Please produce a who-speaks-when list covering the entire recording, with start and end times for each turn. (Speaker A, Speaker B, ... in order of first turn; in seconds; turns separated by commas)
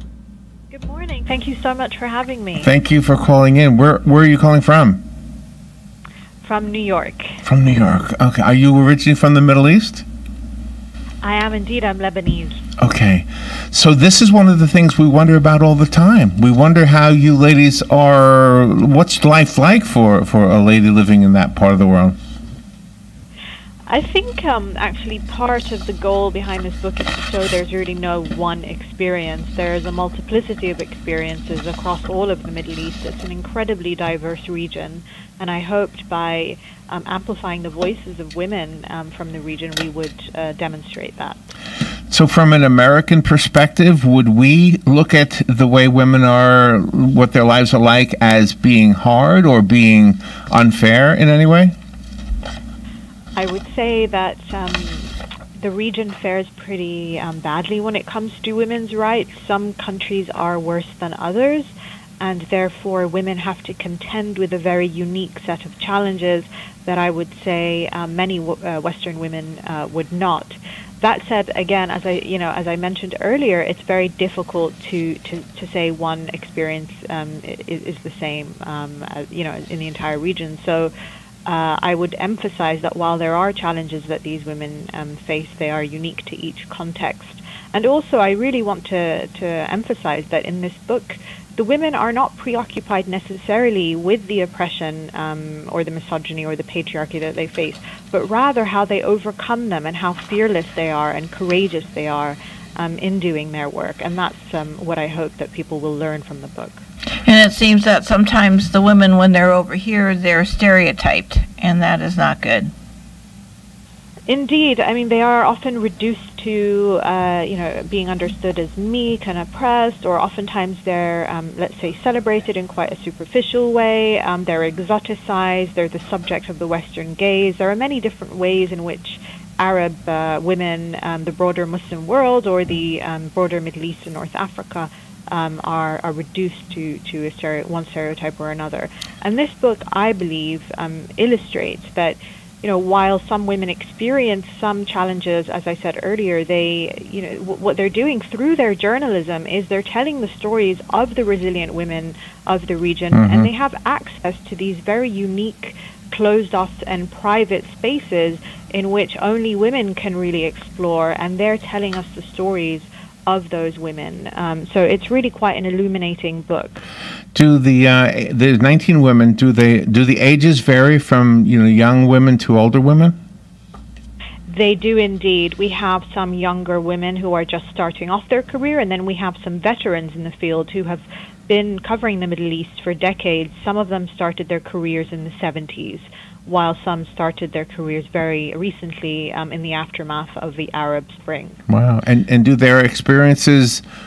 Speaker A: 0.7-2.7, Speaker B: 2.6-5.0, Speaker A: 6.4-7.4, Speaker B: 7.4-10.0, Speaker A: 11.2-12.6, Speaker B: 12.8-22.1, Speaker A: 23.9-41.4, Speaker B: 42.1-51.7, Speaker A: 53.4-80.9, Speaker A: 81.5-106.8, Speaker C: 107.2-112.7, Speaker A: 114.3-166.8, Speaker B: 153.1-153.5, Speaker B: 167.3-173.2, Speaker A: 174.5-191.6, Speaker B: 191.7-193.8